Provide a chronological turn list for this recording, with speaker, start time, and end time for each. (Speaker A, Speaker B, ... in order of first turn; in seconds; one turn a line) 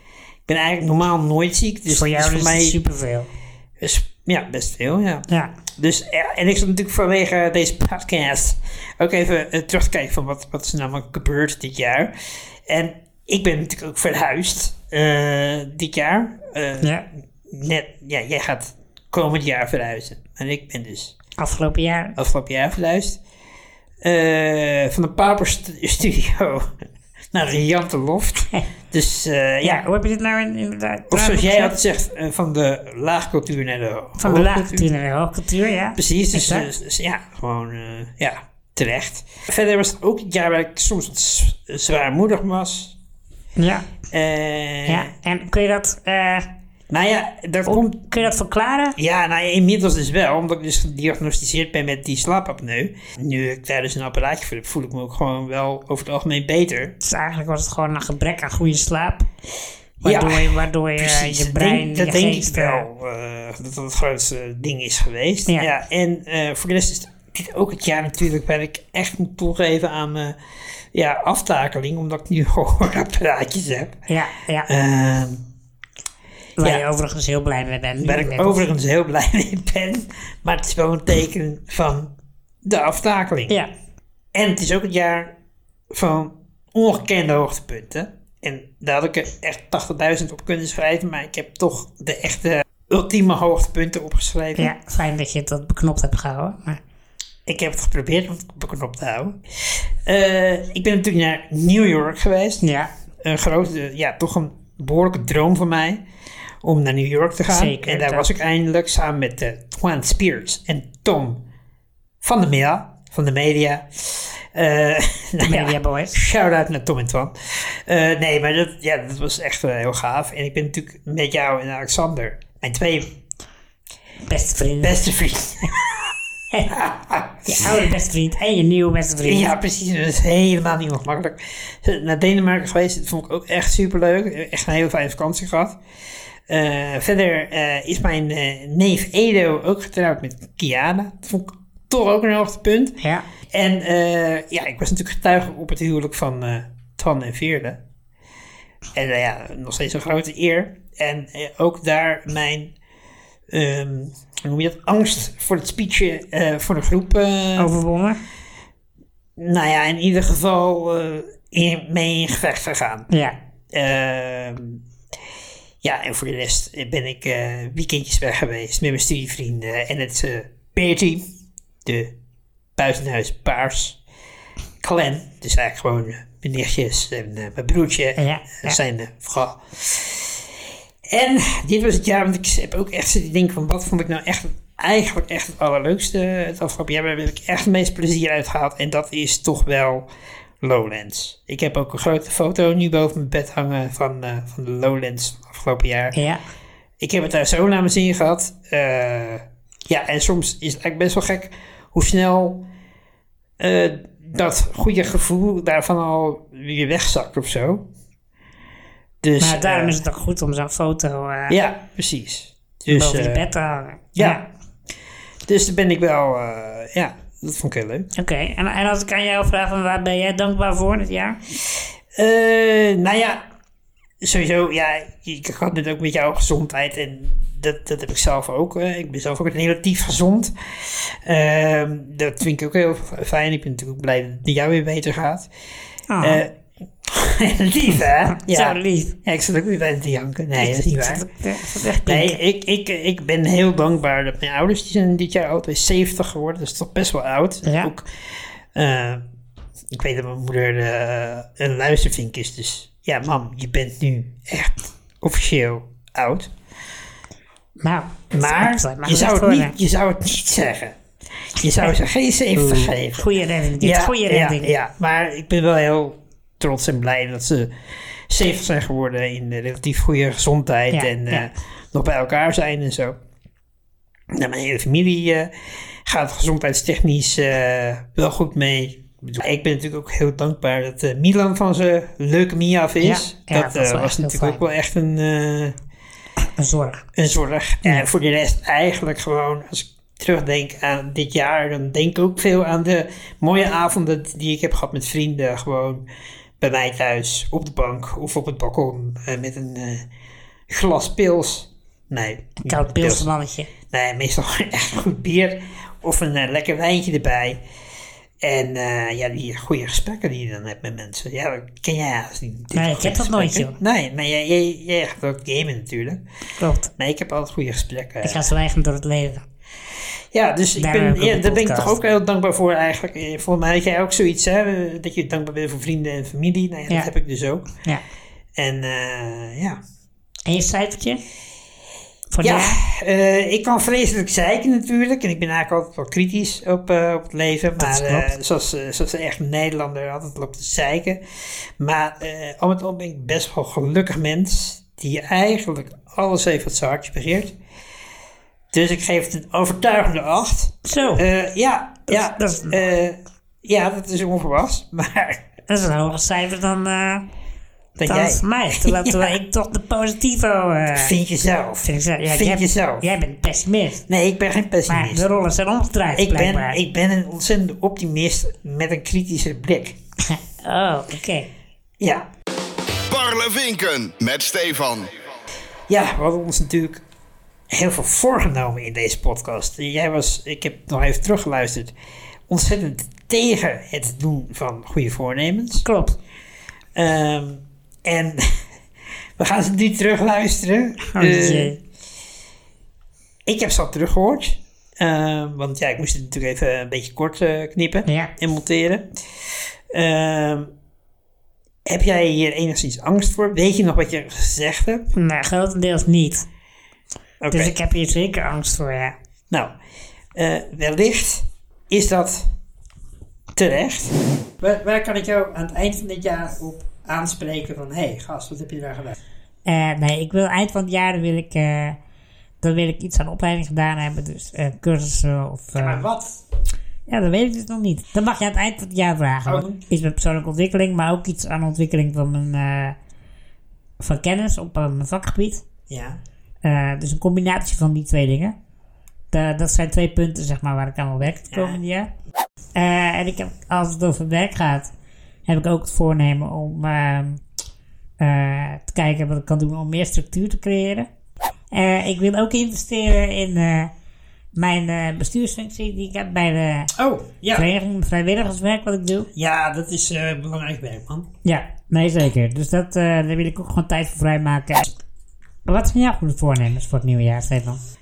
Speaker A: 0.5-2.8
Speaker B: 1.9-3.3
Speaker A: 3.8-12.1
Speaker B: 5.3-5.5
Speaker A: 12.7-16.9
Speaker A: 17.5-21.1
Speaker B: 21.4-22.2
Speaker A: 22.2-23.2
Speaker A: 24.0-26.7
Speaker A: 27.3-29.9
Speaker B: 29.6-31.8
Speaker A: 31.1-34.9
Speaker B: 34.2-36.7
Speaker A: 36.0-42.9
Speaker B: 43.6-43.9
Speaker A: 44.1-45.1
Speaker B: 44.9-46.5
Speaker A: 46.9-48.2
Speaker B: 47.6-49.0
Speaker A: 49.0-56.9
Speaker B: 57.0-59.2
Speaker B: 60.0-62.9
Speaker A: 60.0-70.4
Speaker A: 70.9-74.0
Speaker B: 74.1-74.7
Speaker A: 74.7-75.4
Speaker B: 76.6-78.7
Speaker A: 78.0-82.1
Speaker A: 82.6-83.5
Speaker A: 84.3-85.3
Speaker A: 85.9-94.7
Speaker B: 94.5-96.8
Speaker A: 97.5-102.6
Speaker B: 102.6-102.9
Speaker A: 103.2-106.0
Speaker A: 106.6-111.4
Speaker B: 107.5-108.3
Speaker A: 112.2-123.1
Speaker B: 115.4-116.2
Speaker B: 124.3-125.0
Speaker A: 124.8-126.1
Speaker A: 126.7-127.8
Speaker B: 127.5-129.5
Speaker A: 129.2-135.8
Speaker A: 136.5-143.0
Speaker B: 143.0-143.2
Speaker A: 143.5-147.8
Speaker A: 148.9-152.7
Speaker A: 153.5-157.7
Speaker B: 157.6-158.2
Speaker A: 159.4-163.1
Speaker B: 163.1-163.3
Speaker A: 163.7-164.8
Speaker A: 165.8-171.2
Speaker A: 171.8-172.1
Speaker A: 172.8-174.0
Speaker A: 174.8-180.4
Speaker B: 178.2-178.8
Speaker A: 181.1-190.1
Speaker A: 190.6-196.1
Speaker B: 196.1-196.4
Speaker A: 197.0-202.7
Speaker A: 203.6-207.8
Speaker A: 209.2-210.0
Speaker B: 209.4-211.6
Speaker A: 211.5-213.4
Speaker B: 212.9-214.4
Speaker A: 214.1-214.4
Speaker A: 215.5-218.1
Speaker B: 218.2-221.4
Speaker A: 222.1-223.4
Speaker A: 224.2-235.5
Speaker B: 236.1-236.4
Speaker A: 236.2-241.2
Speaker B: 238.3-239.1
Speaker B: 240.6-242.4
Speaker A: 242.0-248.1
Speaker B: 247.6-247.9
Speaker A: 248.7-249.2
Speaker A: 249.9-256.5
Speaker B: 257.8-259.7
Speaker A: 258.3-263.2
Speaker B: 262.5-264.7
Speaker A: 263.8-267.7
Speaker A: 268.3-273.2
Speaker B: 270.9-271.5
Speaker A: 274.3-275.5
Speaker A: 276.1-285.8
Speaker B: 283.0-284.6
Speaker B: 286.6-287.0
Speaker A: 287.1-296.0
Speaker A: 296.6-300.1
Speaker A: 300.7-303.3
Speaker B: 302.6-303.7
Speaker A: 303.9-307.6
Speaker A: 308.4-316.2
Speaker B: 312.7-313.8
Speaker B: 316.6-316.9
Speaker A: 317.0-318.4
Speaker B: 318.2-319.4
Speaker A: 320.3-327.7
Speaker B: 320.8-322.0
Speaker A: 328.6-329.8
Speaker B: 330.5-331.2
Speaker B: 332.3-332.8
Speaker A: 332.4-341.2
Speaker B: 337.8-338.3
Speaker A: 341.8-347.5
Speaker A: 348.7-355.4
Speaker B: 350.8-351.2
Speaker B: 352.1-352.8
Speaker B: 355.7-357.2
Speaker A: 358.0-359.3
Speaker B: 358.1-361.1
Speaker A: 360.9-363.1
Speaker B: 361.8-364.0
Speaker A: 364.1-365.3
Speaker B: 364.9-366.8
Speaker A: 366.1-370.0
Speaker B: 370.2-371.5
Speaker A: 372.0-372.3
Speaker C: 373.1-375.1
Speaker A: 375.9-377.0
Speaker A: 377.7-381.9
Speaker A: 382.5-385.8
Speaker B: 385.8-386.2
Speaker A: 386.9-388.6
Speaker A: 389.4-391.7
Speaker B: 391.0-391.8
Speaker A: 393.4-399.1
Speaker B: 398.1-398.3
Speaker A: 399.9-400.7
Speaker A: 401.8-405.1
Speaker B: 405.1-406.4
Speaker A: 407.4-407.7
Speaker B: 407.5-409.1
Speaker A: 410.3-412.5
Speaker A: 413.6-419.1
Speaker B: 419.6-422.0
Speaker B: 422.6-426.0
Speaker A: 425.7-426.4
Speaker B: 427.1-432.9
Speaker A: 429.4-429.8
Speaker B: 434.0-435.6
Speaker A: 435.9-436.2
Speaker B: 436.6-438.5
Speaker B: 439.3-442.1
Speaker A: 441.5-441.8
Speaker B: 442.7-444.9
Speaker B: 445.5-447.4
Speaker B: 448.2-451.1
Speaker B: 451.7-453.9
Speaker B: 454.5-456.9
Speaker A: 456.9-457.7
Speaker B: 457.5-459.3
Speaker A: 459.3-461.3
Speaker B: 461.4-464.9
Speaker B: 465.6-467.8